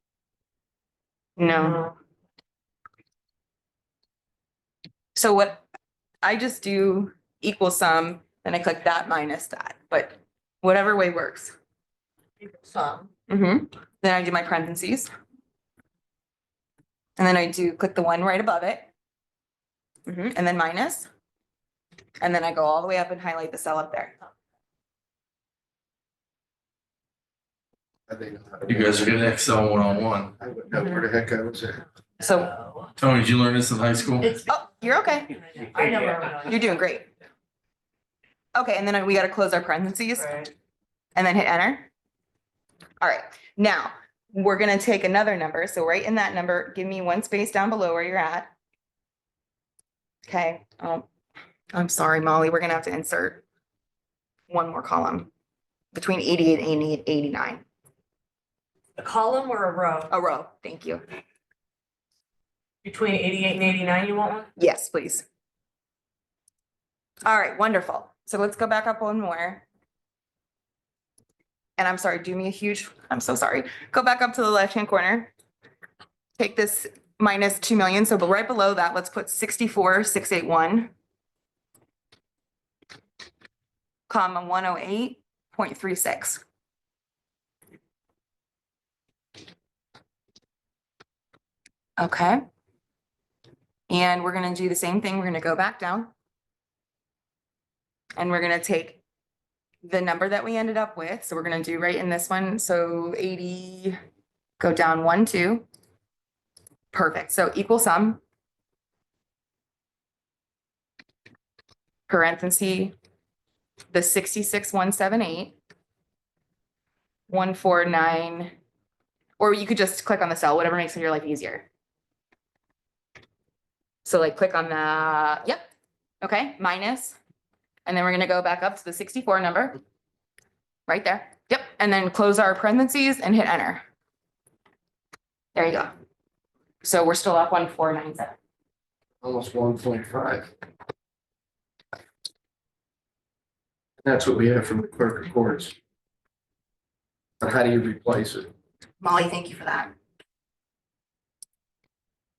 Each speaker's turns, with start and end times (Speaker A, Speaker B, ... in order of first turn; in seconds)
Speaker A: 1.4-1.8, 5.1-5.7, 6.2-11.5, 13.3-15.1, 17.2-18.9, 20.1-21.1, 22.2-24.1, 32.2-32.5, 34.5-35.3, 36.5-37.1, 38.5-40.3, 41.1-41.9, 43.0-48.5, 50.2-51.0, 51.7-53.4, 54.5-55.3, 55.9-57.6, 60.1-61.0, 64.6-65.2, 67.2-69.7, 71.8-75.3, 76.4-80.9, 84.1-86.4, 92.0-92.4, 93.9-96.1, 98.2-99.0, 99.8-104.0, 104.6-105.7, 106.9-108.2, 112.1-112.9, 113.9-115.6, 117.3-118.5, 119.4-121.7, 124.0-125.6, 126.2-127.2, 127.8-129.8, 130.9-133.8, 135.5-135.9, 136.8-138.4, 149.0-149.9
Speaker B: 1.4-1.9, 12.4-13.1, 30.7-31.1, 32.2-32.9, 34.2-36.8, 40.1-40.5, 59.0-60.1, 62.8-64.5
Speaker C: 28.1-29.2, 30.4-31.8, 139.2-140.5, 144.0-145.7, 147.4-148.5
Speaker D: 28.6-30.3, 33.0-34.3